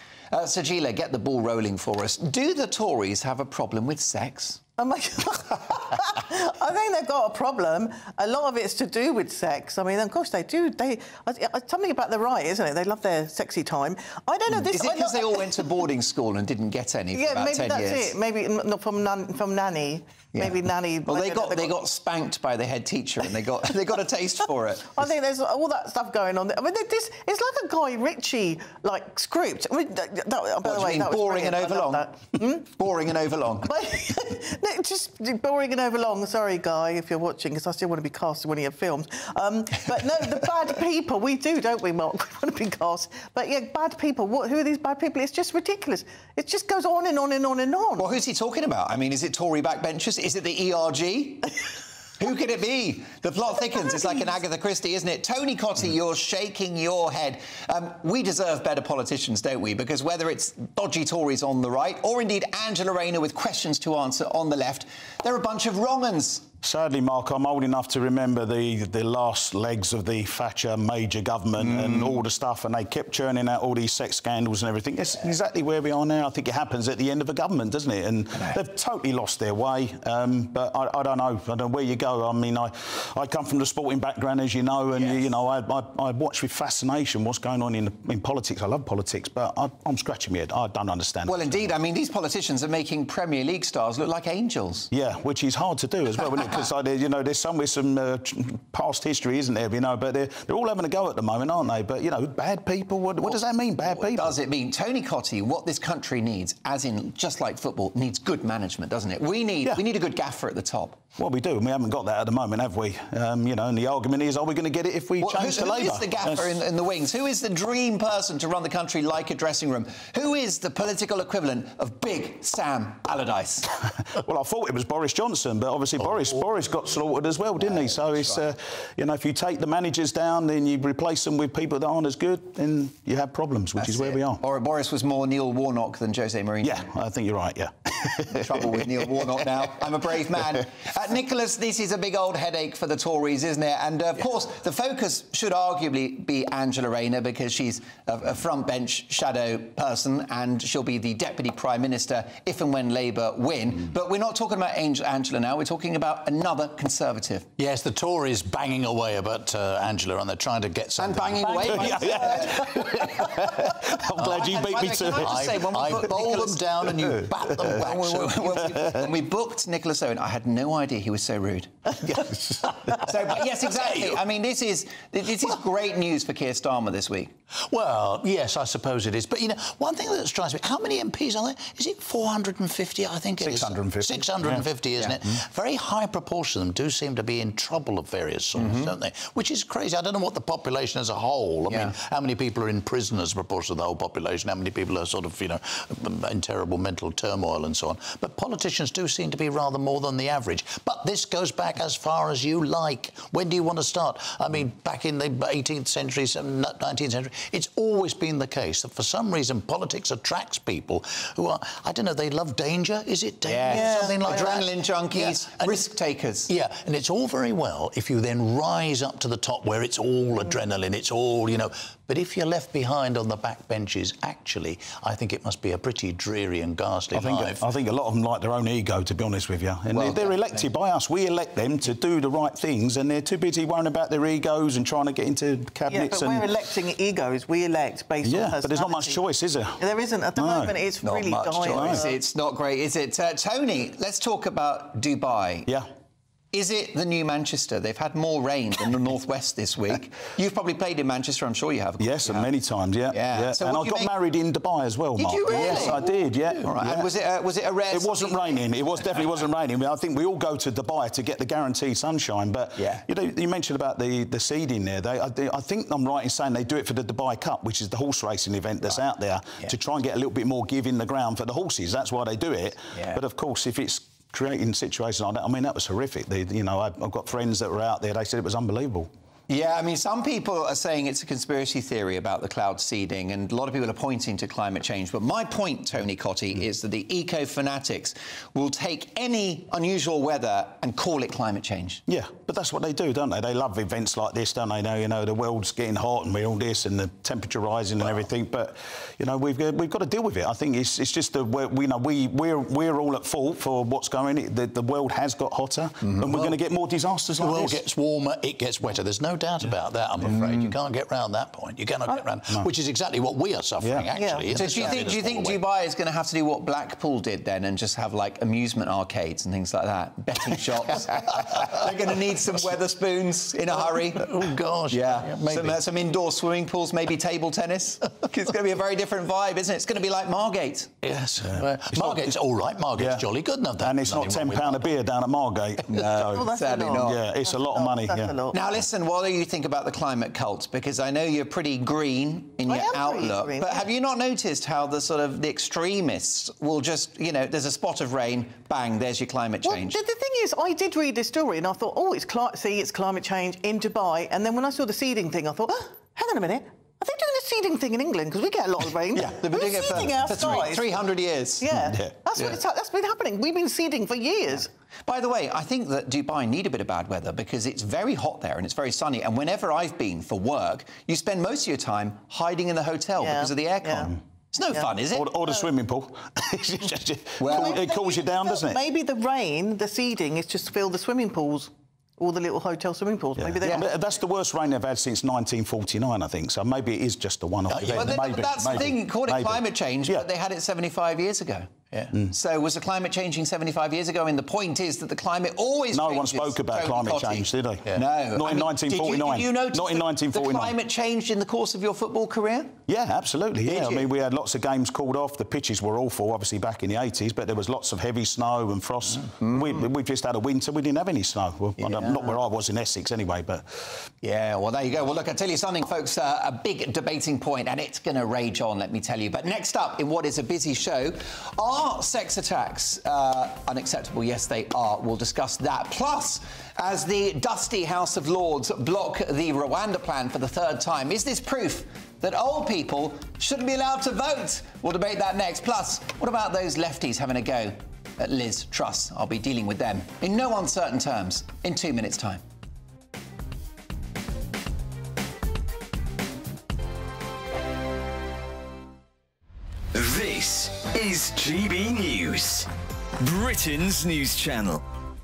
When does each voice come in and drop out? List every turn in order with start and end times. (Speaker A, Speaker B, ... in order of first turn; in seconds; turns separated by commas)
Speaker A: 0.3-4.6, Speaker B: 4.8-15.7, Speaker A: 14.5-18.2, Speaker B: 17.1-21.7, Speaker A: 20.3-24.9, Speaker B: 24.9-32.7, Speaker A: 30.6-33.7, Speaker B: 33.6-48.1, Speaker A: 48.0-51.5, Speaker A: 52.2-66.5, Speaker C: 66.6-91.7, Speaker A: 71.6-72.2, Speaker A: 78.3-78.6, Speaker A: 84.9-85.3, Speaker A: 91.3-94.9, Speaker C: 94.9-104.4, Speaker A: 96.2-96.6, Speaker A: 103.2-111.0, Speaker C: 111.2-116.6, Speaker A: 115.2-123.7, Speaker C: 124.0-134.4, Speaker A: 127.8-128.4, Speaker A: 133.8-136.8, Speaker C: 136.6-139.4, Speaker A: 138.3-157.5, Speaker D: 157.6-163.5, Speaker A: 161.0-163.0, Speaker C: 161.6-166.3, Speaker D: 164.2-168.6, Speaker A: 164.2-166.6, Speaker C: 167.0-167.9, Speaker A: 167.7-171.7, Speaker C: 172.2-172.7, Speaker A: 173.1-177.3, Speaker D: 177.7-215.9, Speaker C: 183.4-184.7, Speaker A: 188.6-188.9, Speaker A: 213.4-216.5, Speaker B: 213.7-214.5, Speaker D: 216.5-227.6, Speaker C: 227.1-236.5, Speaker A: 229.9-230.6, Speaker B: 235.9-239.2, Speaker C: 238.2-239.8, Speaker B: 239.8-242.1, Speaker C: 240.4-242.0, Speaker A: 241.7-245.7, Speaker A: 246.5-252.5, Speaker C: 252.0-257.1, Speaker A: 253.1-254.1, Speaker A: 255.2-259.4, Speaker C: 257.9-279.1, Speaker A: 262.8-263.0, Speaker A: 279.5-292.0, Speaker C: 292.1-307.8, Speaker A: 306.1-306.5, Speaker D: 307.4-315.6, Speaker C: 310.2-310.8, Speaker C: 313.8-314.1, Speaker B: 314.2-314.9, Speaker A: 314.6-324.3, Speaker D: 324.1-325.8, Speaker A: 324.9-330.9, Speaker D: 331.0-334.9, Speaker C: 331.5-332.3, Speaker C: 333.0-333.3, Speaker C: 333.8-338.4, Speaker A: 335.9-337.2, Speaker B: 336.3-338.6, Speaker A: 338.5-350.0, Speaker B: 342.7-343.9, Speaker B: 349.6-361.0, Speaker C: 359.2-360.1, Speaker A: 359.4-361.6, Speaker B: 361.6-364.7, Speaker C: 361.7-362.6, Speaker A: 365.1-375.3, Speaker B: 373.2-374.1, Speaker B: 374.7-375.7, Speaker C: 375.1-378.8, Speaker A: 377.4-377.8, Speaker B: 377.5-384.1, Speaker C: 383.4-390.3, Speaker D: 387.7-388.2, Speaker A: 387.8-391.7, Speaker A: 392.3-402.8, Speaker C: 395.9-400.8, Speaker C: 402.9-413.7, Speaker A: 403.7-404.1, Speaker A: 409.4-409.9, Speaker A: 411.8-412.4, Speaker A: 414.2-442.4, Speaker E: 449.9-452.7, Speaker E: 453.2-454.8